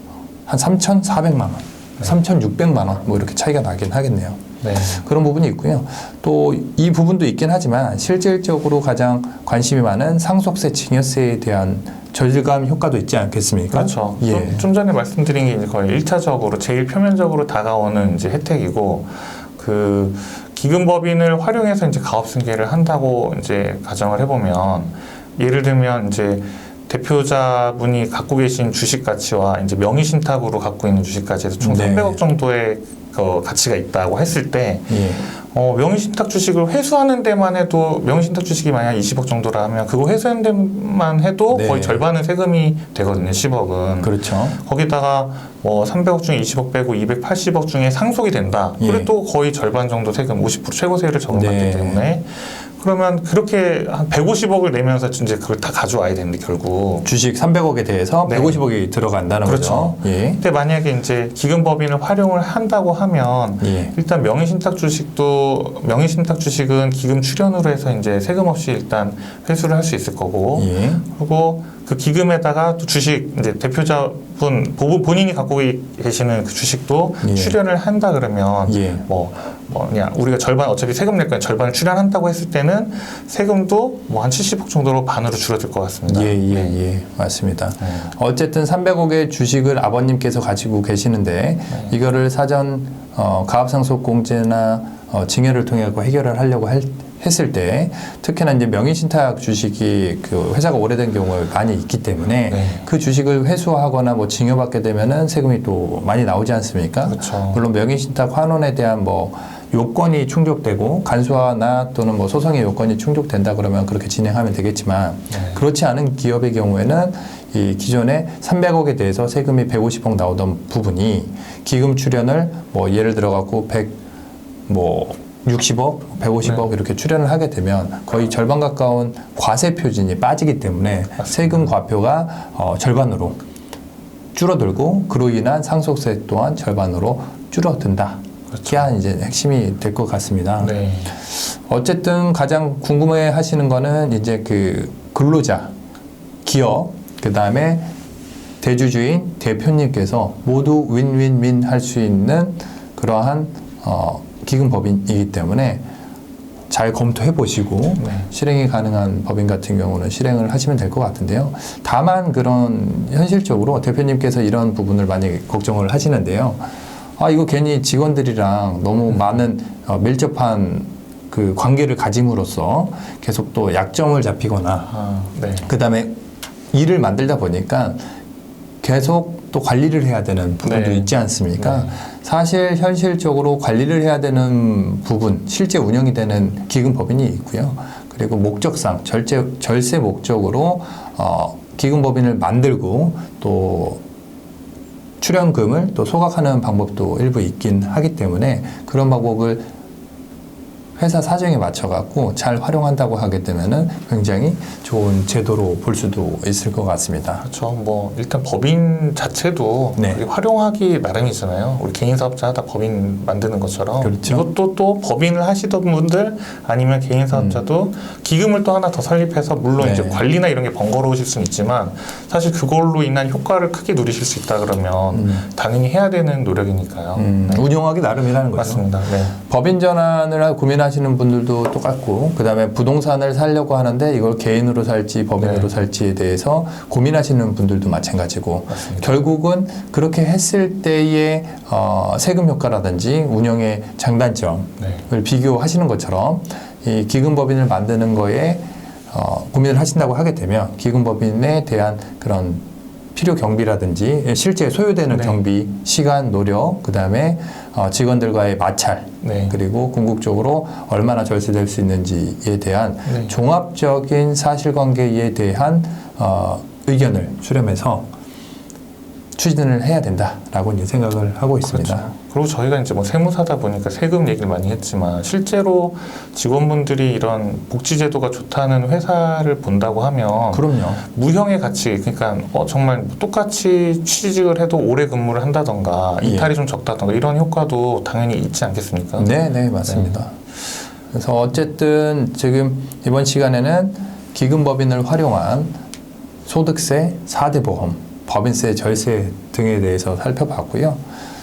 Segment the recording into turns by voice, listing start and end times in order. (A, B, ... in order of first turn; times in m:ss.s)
0:00.5-0:14.6 A
0:04.6-0:05.0 B
0:13.7-0:57.1 B
0:31.6-0:32.2 A
0:34.9-0:35.2 A
0:41.5-0:42.0 A
0:44.0-0:44.6 A
0:48.8-0:49.1 A
0:51.3-0:52.1 A
0:57.0-1:00.4 A
0:58.3-0:58.6 B
0:59.4-1:26.7 B
1:03.6-1:03.9 A
1:10.6-1:11.0 A
1:17.2-1:17.6 A
1:18.7-1:19.0 A
1:26.1-2:04.0 A
1:27.8-1:28.1 B
1:42.5-1:42.8 B
1:47.0-1:47.6 B
1:55.3-1:55.6 B
2:04.7-2:13.4 A
2:11.2-2:11.6 B
2:14.3-2:20.7 A
2:18.5-2:18.8 B
2:20.6-2:21.1 B
2:21.3-2:25.7 A
2:26.4-2:27.9 A
2:28.6-2:35.8 A
2:36.7-2:46.6 A
2:38.0-2:38.3 B
2:47.2-2:54.9 A
2:54.9-2:55.7 B
2:55.6-2:56.2 A
2:56.7-2:58.0 A
2:58.8-3:14.0 A
3:00.6-3:02.0 B
3:15.2-3:19.7 A
3:21.0-3:27.4 A
3:27.4-3:47.6 B
3:34.0-3:34.5 A
3:37.3-3:37.6 A
3:39.8-3:40.2 A
3:45.1-3:45.4 A
3:47.2-3:48.9 A
3:48.5-3:49.4 B
3:49.4-4:12.6 A
3:55.4-3:55.7 B
3:58.7-3:59.1 B
4:13.1-4:28.1 A
4:15.1-4:15.4 B
4:19.2-4:19.6 B
4:23.0-4:23.3 B
4:29.4-4:32.1 A
4:31.6-4:49.3 B
4:40.5-4:41.0 A
4:46.2-4:46.5 A
4:49.2-4:50.4 A
4:49.9-4:50.1 B
4:51.1-4:55.8 A
4:56.4-5:01.0 A